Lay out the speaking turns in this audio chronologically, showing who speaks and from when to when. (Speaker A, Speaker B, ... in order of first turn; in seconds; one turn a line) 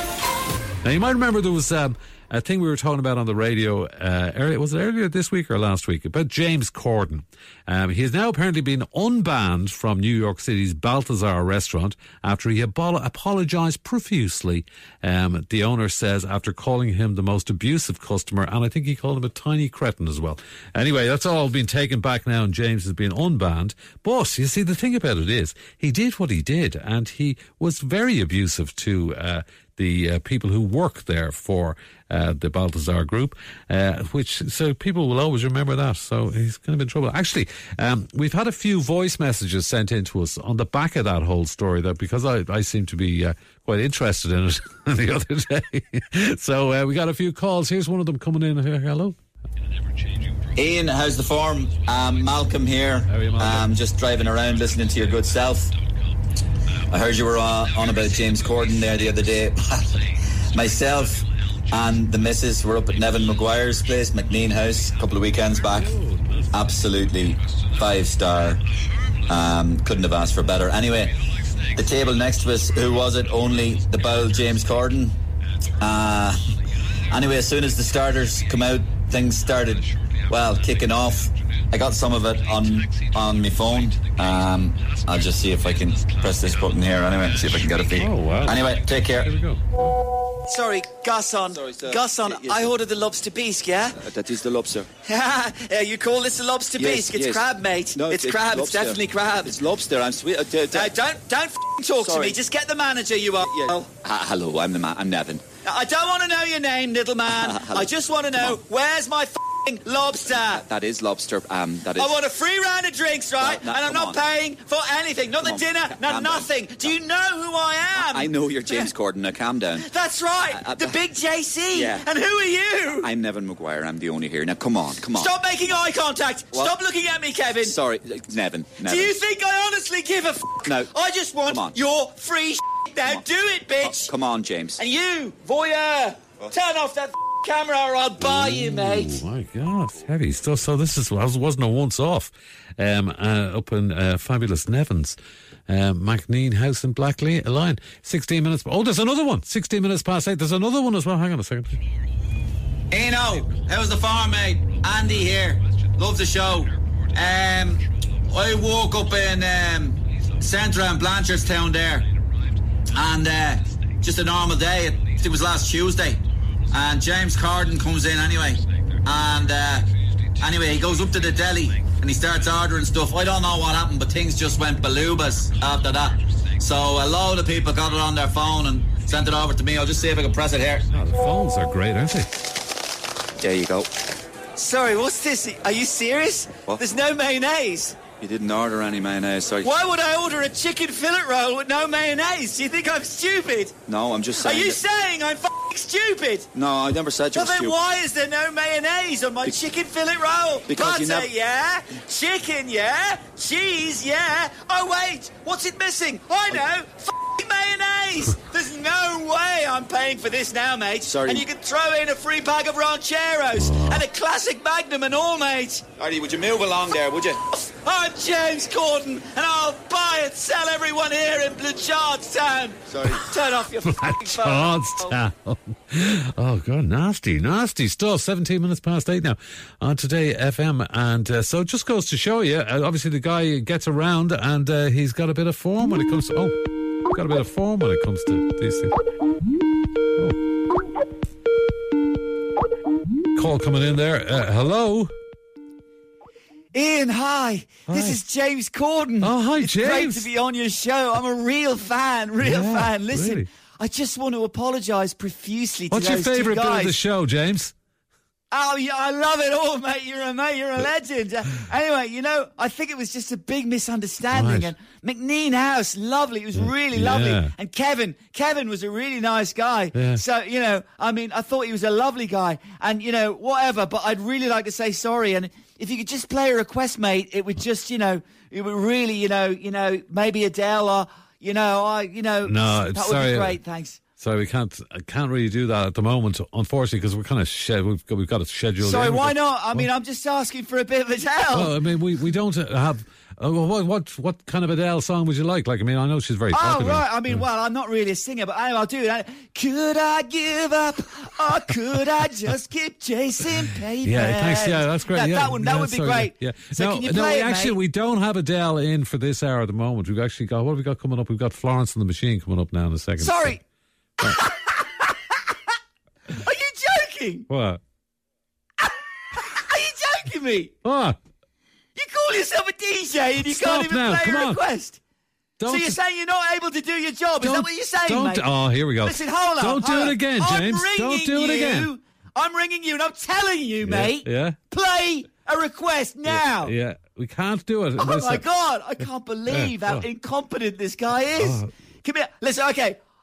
Speaker A: 0.8-49.2
Speaker B: 50.5-55.7
Speaker A: 52.0-52.5
Speaker A: 53.0-53.8
Speaker C: 54.1-55.5
Speaker A: 54.3-55.6
Speaker B: 56.9-60.0
Speaker C: 57.4-58.8
Speaker A: 57.4-74.8
Speaker B: 60.5-61.2
Speaker B: 61.7-65.9
Speaker C: 61.9-65.6
Speaker B: 66.5-68.6
Speaker C: 66.8-67.2
Speaker C: 68.0-68.4
Speaker B: 69.3-71.1
Speaker C: 69.4-70.8
Speaker B: 71.8-75.1
Speaker C: 72.0-72.7
Speaker C: 74.6-74.9
Speaker A: 75.8-90.0
Speaker B: 75.8-76.4
Speaker B: 77.1-79.7
Speaker C: 77.4-77.9
Speaker B: 80.3-87.2
Speaker C: 85.7-88.1
Speaker B: 87.9-89.3
Speaker D: 90.5-94.0
Speaker C: 91.5-92.7
Speaker C: 93.9-94.9
Speaker D: 95.0-99.5
Speaker C: 96.8-100.9
Speaker D: 100.7-103.9
Speaker C: 102.0-102.4
Speaker C: 103.4-105.4
Speaker D: 105.6-110.6
Speaker C: 107.3-108.6
Speaker C: 110.3-112.1
Speaker D: 112.0-118.9
Speaker C: 113.4-114.2
Speaker C: 115.4-116.9
Speaker C: 118.0-119.9
Speaker D: 119.8-123.1
Speaker C: 120.5-121.0
Speaker C: 121.7-122.0
Speaker C: 123.0-125.3
Speaker D: 125.1-127.8
Speaker C: 127.6-129.2
Speaker D: 128.8-134.1
Speaker C: 130.7-130.9
Speaker C: 131.5-131.8
Speaker C: 133.8-134.8
Speaker D: 134.8-139.2
Speaker A: 138.2-145.2
Speaker A: 145.7-151.8
Speaker B: 152.9-162.1
Speaker A: 154.8-155.6
Speaker A: 156.3-157.7
Speaker B: 162.9-166.2
Speaker B: 166.7-169.9
Speaker B: 170.4-180.9
Speaker A: 180.9-182.4
Speaker C: 183.4-183.9
Speaker D: 184.6-188.0
Speaker C: 188.2-189.7
Speaker D: 189.6-193.8
Speaker C: 193.9-194.8
Speaker D: 194.4-196.5
Speaker C: 196.5-197.8
Speaker D: 197.3-215.9
Speaker C: 200.7-201.3
Speaker C: 211.0-211.5
Speaker A: 213.6-214.0
Speaker C: 216.0-217.4
Speaker D: 217.5-225.2
Speaker C: 222.9-223.2
Speaker A: 223.8-236.6
Speaker A: 237.1-238.9
Speaker A: 243.4-245.1
Speaker D: 246.7-257.0
Speaker A: 247.9-248.2
Speaker A: 249.2-250.3
Speaker A: 252.4-253.5
Speaker A: 255.9-257.7
Speaker D: 258.5-284.0
Speaker A: 264.3-264.7
Speaker A: 266.5-267.5
Speaker A: 269.9-270.2
Speaker A: 282.4-283.6
Speaker A: 284.2-289.9
Speaker D: 288.8-291.8
Speaker A: 291.5-297.5
Speaker D: 296.5-307.8
Speaker A: 304.0-313.6
Speaker D: 313.2-313.6
Speaker D: 314.2-315.5
Speaker D: 316.3-317.5
Speaker A: 317.5-317.8
Speaker D: 318.8-320.7
Speaker A: 320.8-321.2
Speaker D: 321.9-325.0
Speaker A: 323.4-324.6
Speaker A: 325.6-326.0
Speaker D: 325.6-328.5
Speaker A: 327.4-331.9
Speaker D: 329.0-336.8
Speaker A: 333.8-334.6
Speaker A: 336.2-338.4
Speaker D: 338.0-343.0
Speaker A: 339.5-340.1
Speaker A: 341.4-341.7